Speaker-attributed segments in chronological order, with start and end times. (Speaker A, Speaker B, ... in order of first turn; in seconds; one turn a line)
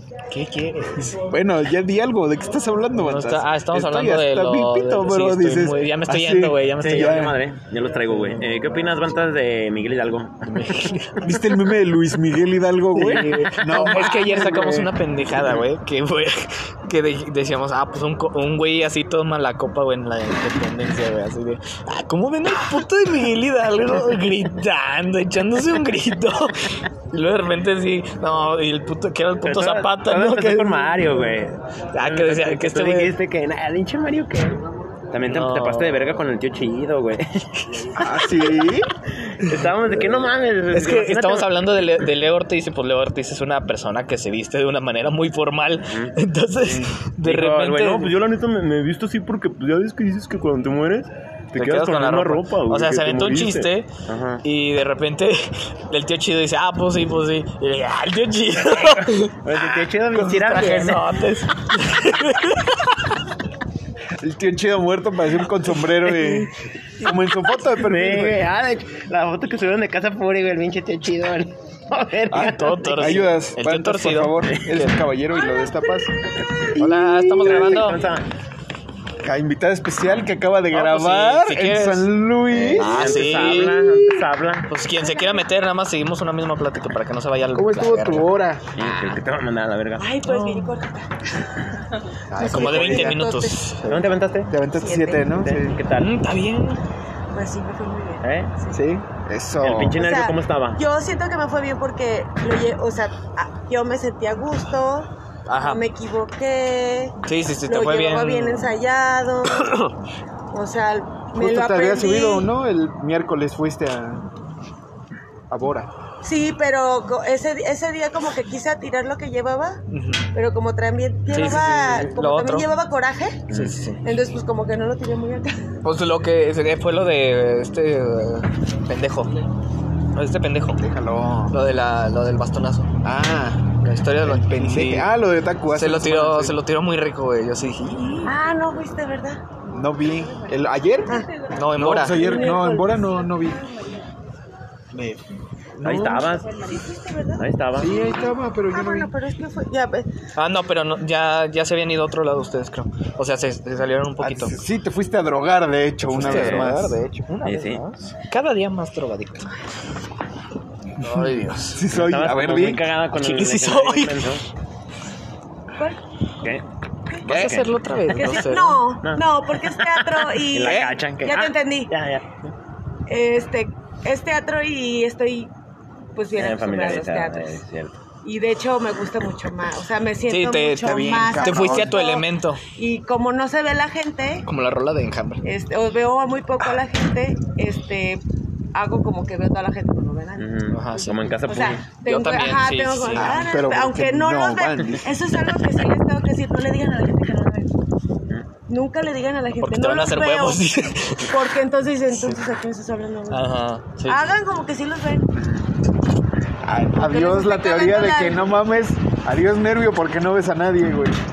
Speaker A: 0.3-1.2
Speaker B: 0.9-7.4
Speaker A: 3.0-7.3
Speaker C: 6.8-10.9
Speaker A: 10.5-11.2
Speaker B: 11.2-15.5
Speaker A: 12.9-31.1
Speaker C: 29.4-38.6
Speaker A: 31.9-33.1
Speaker A: 35.2-36.0
Speaker B: 38.0-38.9
Speaker C: 39.4-41.5
Speaker A: 40.7-48.1
Speaker C: 45.9-46.1
Speaker B: 46.6-46.9
Speaker C: 47.2-54.4
Speaker A: 51.5-53.9
Speaker A: 54.4-63.0
Speaker C: 58.8-61.1
Speaker B: 64.2-68.4
Speaker C: 67.0-73.3
Speaker A: 72.3-74.9
Speaker B: 72.3-78.0
Speaker A: 76.8-78.0
Speaker C: 77.4-78.3
Speaker B: 79.2-84.3
Speaker A: 80.7-82.1
Speaker C: 82.5-84.7
Speaker A: 82.7-83.9
Speaker A: 84.7-88.3
Speaker D: 85.0-85.5
Speaker B: 87.5-89.2
Speaker C: 88.8-90.2
Speaker D: 90.0-91.1
Speaker A: 90.2-90.8
Speaker B: 92.3-93.2
Speaker D: 92.4-93.7
Speaker A: 92.4-93.8
Speaker B: 93.8-95.8
Speaker C: 93.9-94.5
Speaker D: 94.7-95.4
Speaker C: 95.3-96.1
Speaker A: 96.0-96.8
Speaker D: 97.3-98.8
Speaker C: 98.2-98.5
Speaker B: 98.7-100.0
Speaker C: 99.6-100.8
Speaker D: 99.9-109.7
Speaker A: 105.5-105.8
Speaker A: 107.2-108.7
Speaker A: 109.5-109.9
Speaker D: 110.5-112.5
Speaker B: 111.4-114.3
Speaker B: 115.5-115.9
Speaker D: 116.2-119.8
Speaker A: 119.9-120.3
Speaker D: 120.3-123.4
Speaker A: 121.3-122.7
Speaker C: 123.5-123.8
Speaker A: 123.5-124.0
Speaker D: 124.0-125.7
Speaker A: 125.8-129.4
Speaker A: 130.1-130.8
Speaker B: 130.8-131.6
Speaker A: 131.5-132.9
Speaker B: 133.0-136.6
Speaker A: 133.8-135.1
Speaker A: 135.7-138.3
Speaker D: 138.2-139.4
Speaker B: 139.7-143.7
Speaker D: 141.0-141.3
Speaker A: 141.5-142.5
Speaker D: 141.9-143.5
Speaker B: 144.9-145.2
Speaker B: 145.8-146.3
Speaker C: 145.8-146.6
Speaker D: 146.2-150.1
Speaker C: 147.3-148.1
Speaker B: 147.8-149.1
Speaker A: 150.4-154.6
Speaker B: 154.2-157.0
Speaker A: 156.1-159.5
Speaker C: 156.2-156.7
Speaker C: 157.4-157.8
Speaker A: 161.0-161.8
Speaker B: 161.7-162.9
Speaker C: 161.9-164.4
Speaker A: 163.1-164.2
Speaker A: 167.2-168.9
Speaker C: 167.3-167.7
Speaker D: 168.1-171.9
Speaker C: 169.0-172.5
Speaker B: 170.5-171.0
Speaker D: 173.1-175.5
Speaker D: 176.1-177.6
Speaker C: 176.3-177.9
Speaker D: 178.2-184.4
Speaker A: 180.3-182.6
Speaker B: 180.9-182.0
Speaker A: 184.4-185.4
Speaker D: 185.4-188.2
Speaker D: 188.7-190.6
Speaker C: 190.4-191.9
Speaker A: 190.7-191.2
Speaker D: 191.1-197.7
Speaker A: 192.1-193.3
Speaker B: 193.1-195.1
Speaker D: 198.7-200.7
Speaker A: 199.6-201.3
Speaker D: 201.3-203.5
Speaker A: 202.1-202.4
Speaker A: 203.3-204.2
Speaker D: 204.1-205.3
Speaker B: 206.6-211.2
Speaker D: 206.9-208.5